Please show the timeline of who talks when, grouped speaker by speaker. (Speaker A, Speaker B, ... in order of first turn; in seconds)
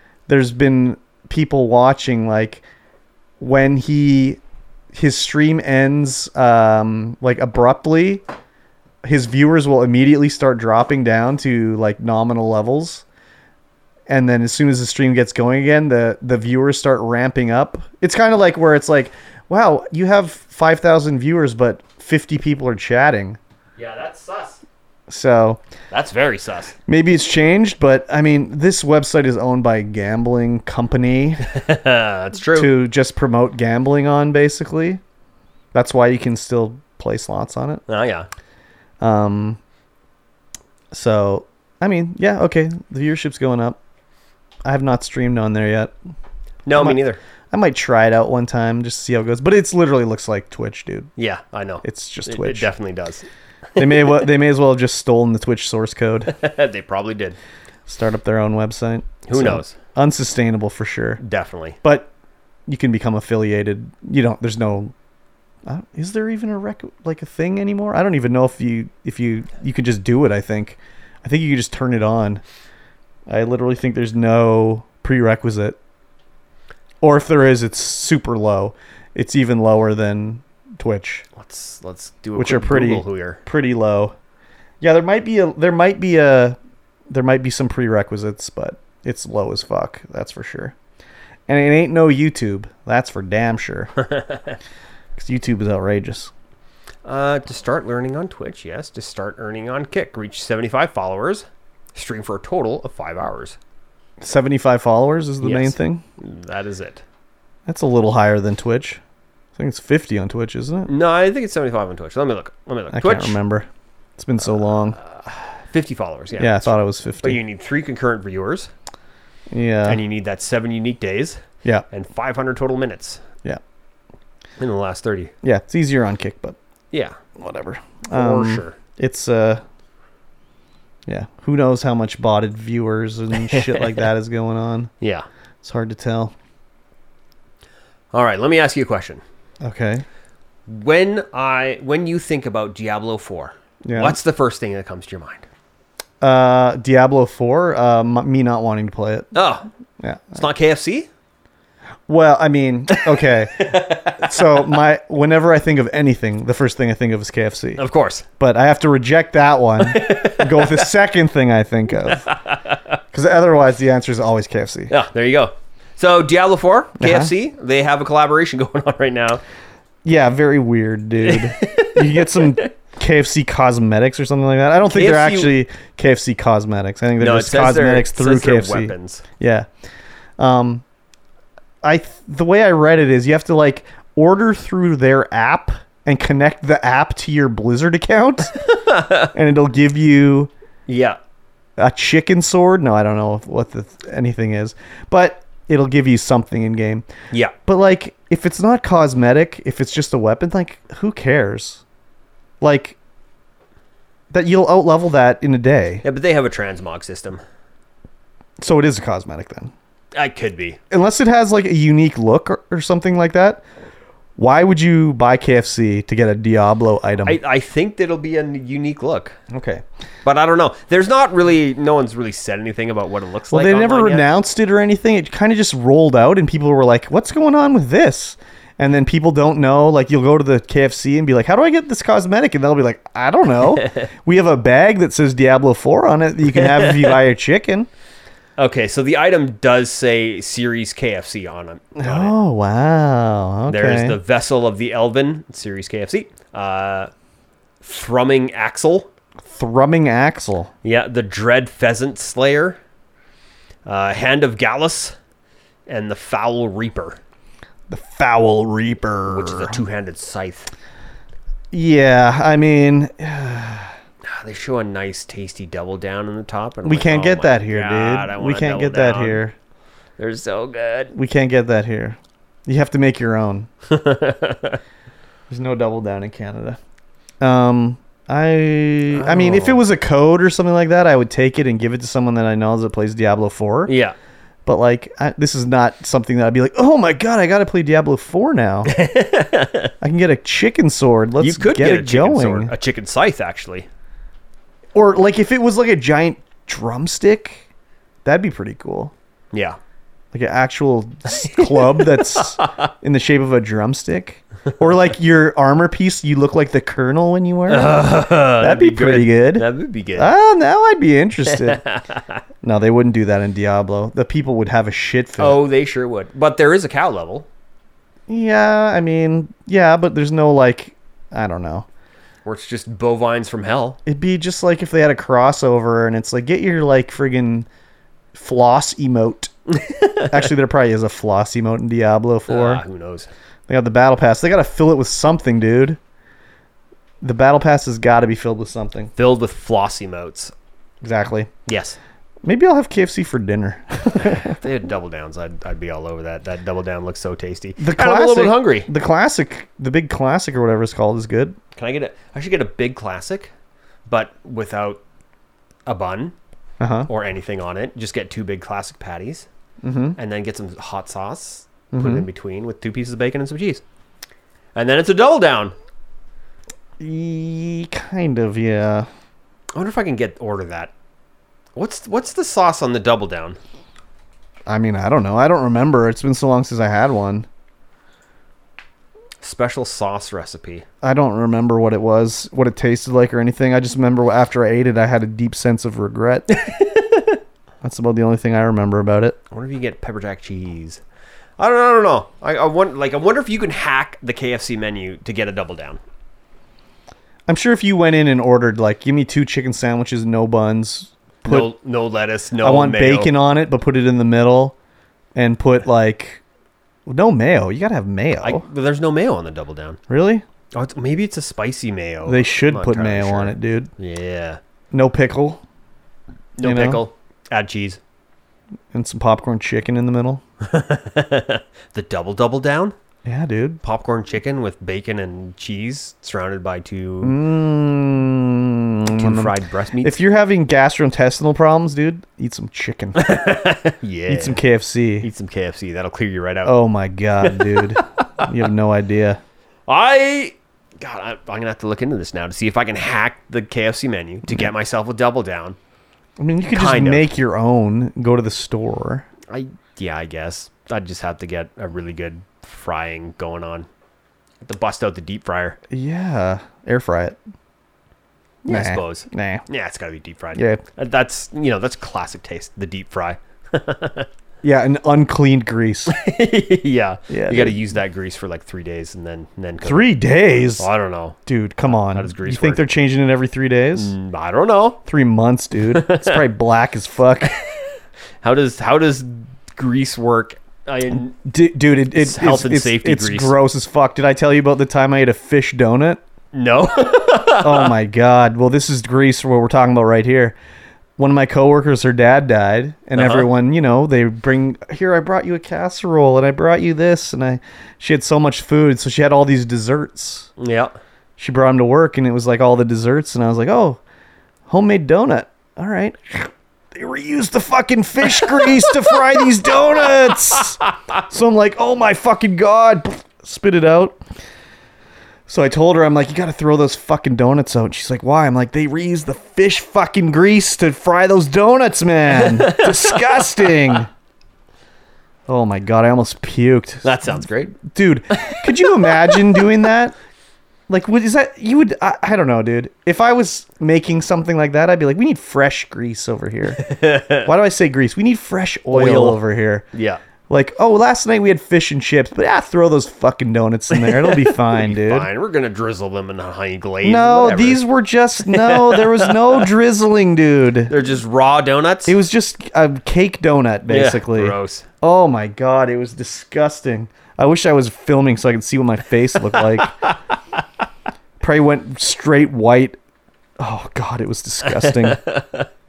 Speaker A: 0.3-2.6, 3.4-4.4, 4.9-8.2, 9.0-13.0, 14.1-23.4, 25.1-25.6, 26.9-31.4, 32.5-35.0, 35.7-37.8, 39.0-39.6, 40.9-43.8, 44.6-45.9, 46.7-51.1, 51.8-52.7, 53.8-56.3, 57.9-61.2, 61.8-62.1, 62.7-64.9, 65.7-72.4, 73.3-75.8, 77.0-81.2, 82.3-84.1, 84.8-86.6, 87.1-90.7, 91.5-93.9, 95.2-96.3, 104.2-106.0, 107.7-109.0, 109.5-110.9, 112.9-115.0, 116.4-117.4, 119.5-120.0, 125.4-126.6, 127.4-129.6, 131.1-134.9, 135.6-136.3, 139.6-140.0, 143.8-144.2, 146.2-149.3, 150.0-150.4, 152.1-157.8, 158.4-162.3, 163.1-164.9, 167.0-167.3, 170.0-179.7, 180.4-180.8, 181.8-188.6, 189.3-190.5, 191.8-197.0, 197.7-201.8, 202.6-203.0, 204.3-206.0, 208.6-209.7, 210.9-213.6, 214.4-217.4, 219.5-219.8, 223.5-237.9, 241.9-244.2, 249.4-250.7, 257.9-259.8, 261.7-263.9, 266.8-269.5, 271.1-273.7, 275.5-276.8, 277.4-283.9, 284.6-288.9, 290.0-292.7, 294.9-297.6, 298.2-299.1, 300.3-308.0, 308.6-309.6, 310.2-311.8, 312.6-315.6, 318.3-321.9, 324.1-327.7, 328.3-329.5, 330.3-332.8, 333.7-336.0, 337.2-339.1, 341.0-341.5, 342.4-344.6, 347.8-351.6, 356.8-357.1, 359.8-360.2, 361.9-362.2, 367.0-369.1, 374.7-377.5, 381.0-386.5, 387.8-389.4, 397.5-401.7, 402.6-404.7, 405.3-406.4, 407.1-408.6, 410.1-410.4, 412.2-413.9, 414.9-415.6, 416.6-417.0, 418.9-420.4, 423.2-423.8, 427.2-433.2, 434.3-435.3, 436.6-439.4, 446.4-449.2, 455.9-457.4, 458.7-459.6, 460.6-460.8, 464.6-466.1, 467.3-467.8, 469.8-470.9, 471.4-474.1, 475.1-477.5, 481.3-486.2, 487.6-490.6, 491.2-500.5, 501.4-504.0, 504.7-514.2, 515.5-524.1, 525.5-530.1, 530.9-539.9, 540.5-545.3, 547.0-550.9, 552.0-559.9, 561.4-563.0, 563.6-565.2
Speaker B: 23.8-24.6, 25.9-26.7, 31.5-32.8, 37.9-38.3, 46.6-47.2, 51.2-54.1, 56.3-57.4, 59.2-59.8, 61.2-61.8, 81.3-83.4, 94.0-94.5, 97.0-103.6, 105.4-107.0, 110.9-113.4, 115.0-118.7, 119.8-123.2, 124.6-125.3, 126.9-127.2, 128.1-128.8, 133.3-134.1, 138.1-139.2, 140.7-145.4, 149.3-149.7, 150.3-151.1, 152.9-154.6, 157.8-158.2, 159.8-160.9, 162.0-163.0, 164.9-169.4, 171.2-172.7, 174.9-175.5, 177.2-179.2, 188.6-189.3, 190.9-191.2, 206.0-207.4, 210.1-210.8, 217.2-219.4, 220.2-224.2, 233.8-234.1, 236.5-237.2, 238.6-242.3, 243.7-247.1, 247.8-249.1, 250.8-252.8, 253.8-255.2, 255.9-257.2, 259.3-260.7, 264.2-269.4, 270.2-271.1, 273.9-274.8, 279.1-279.8, 283.9-284.1, 288.8-289.9, 291.4-293.9, 299.5-299.8, 301.3-302.9, 307.7-310.3, 311.5-312.4, 315.4-317.5, 322.4-324.0, 329.7-330.4, 332.5-333.3, 339.1-340.5, 341.6-342.0, 344.2-348.9, 351.8-353.5, 354.1-355.0, 355.9-356.3, 357.1-359.5, 360.1-363.8, 364.7-365.7, 369.7-370.9, 371.8-373.6, 379.4-380.8, 386.5-387.4, 389.5-391.0, 391.6-396.0, 401.4-403.3, 408.4-410.0, 410.7-414.6, 416.6-418.0, 420.6-422.9, 423.8-427.4, 429.1-430.2, 433.1-434.6, 435.2-436.7, 437.4-438.5, 439.9-445.8, 446.7-447.3, 449.5-453.9, 454.6-455.8, 458.6-464.3, 466.1-470.1, 470.8-471.4, 471.9-472.8, 473.9-475.0, 475.9-476.4, 478.4-481.4, 482.2-483.5, 486.5-487.9, 493.1-493.5, 500.6-500.9, 508.4-511.2, 522.3-523.9, 527.0-527.8, 528.3-529.8, 536.8-537.5, 538.9-539.4, 539.9-540.2, 543.9-547.8, 548.4-549.7, 550.9-552.2, 553.9-554.9, 559.5-560.2, 564.6-565.7